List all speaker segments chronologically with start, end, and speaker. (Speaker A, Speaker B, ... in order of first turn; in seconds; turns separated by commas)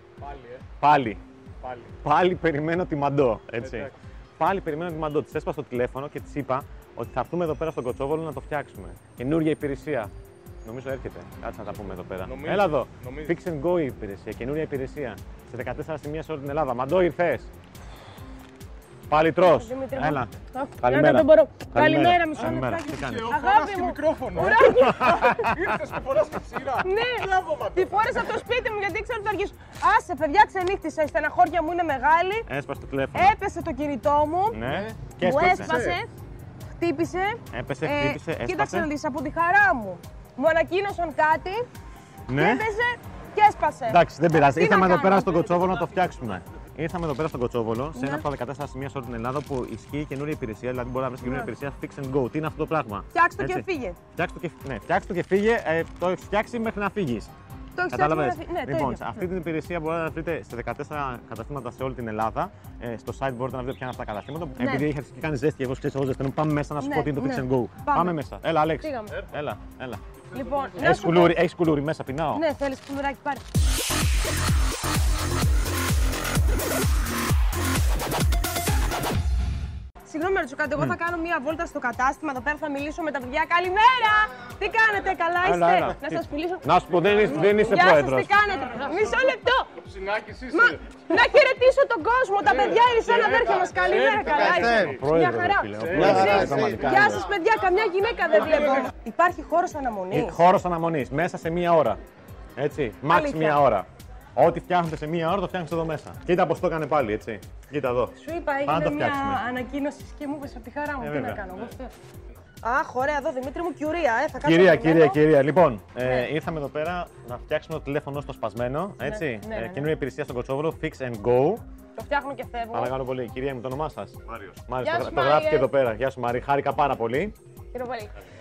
Speaker A: 0.2-0.6, Speaker B: 0.8-1.2, Speaker A: 1.6-1.9, Speaker B: 2.0-10.1, Speaker A: 3.6-3.9, Speaker B: 10.6-17.5, Speaker A: 12.2-13.3, Speaker B: 19.1-23.3, Speaker C: 19.4-25.4, Speaker A: 22.6-28.2, Speaker B: 24.4-25.8, Speaker C: 26.8-32.5, Speaker B: 32.5-33.4, Speaker C: 33.1-34.6, Speaker B: 34.5-35.7, Speaker A: 34.6-36.0, Speaker C: 35.2-36.1, Speaker C: 36.8-41.7, Speaker B: 37.5-38.9, Speaker B: 42.3-42.6, Speaker C: 42.3-45.6, Speaker B: 43.9-53.6, Speaker C: 47.9-48.2, Speaker C: 51.2-51.5, Speaker C: 53.1-54.0, Speaker B: 54.1-57.3, Speaker C: 57.7-59.2, Speaker B: 57.9-70.0, Speaker C: 64.5-64.9, Speaker C: 66.8-68.2, Speaker C: 68.8-69.3, Speaker A: 70.3-70.9, Speaker C: 70.3-71.4, Speaker B: 70.8-72.4, Speaker C: 72.3-73.5, Speaker C: 80.0-86.7, Speaker B: 85.4-88.4, Speaker A: 87.0-87.5, Speaker C: 87.4-89.7, Speaker A: 89.8-90.8, Speaker C: 90.5-100.4, Speaker A: 92.6-95.0, Speaker B: 94.4-97.3, Speaker A: 95.8-97.1, Speaker A: 98.3-98.9, Speaker B: 100.1-102.0, Speaker B: 102.6-109.4, Speaker C: 103.1-103.6, Speaker C: 108.1-111.9, Speaker B: 111.0-111.5, Speaker C: 112.6-115.2, Speaker B: 114.4-121.6, Speaker C: 116.0-116.3, Speaker C: 119.0-119.9, Speaker C: 122.0-122.9, Speaker B: 122.7-127.3, Speaker C: 124.8-125.7, Speaker C: 127.7-128.1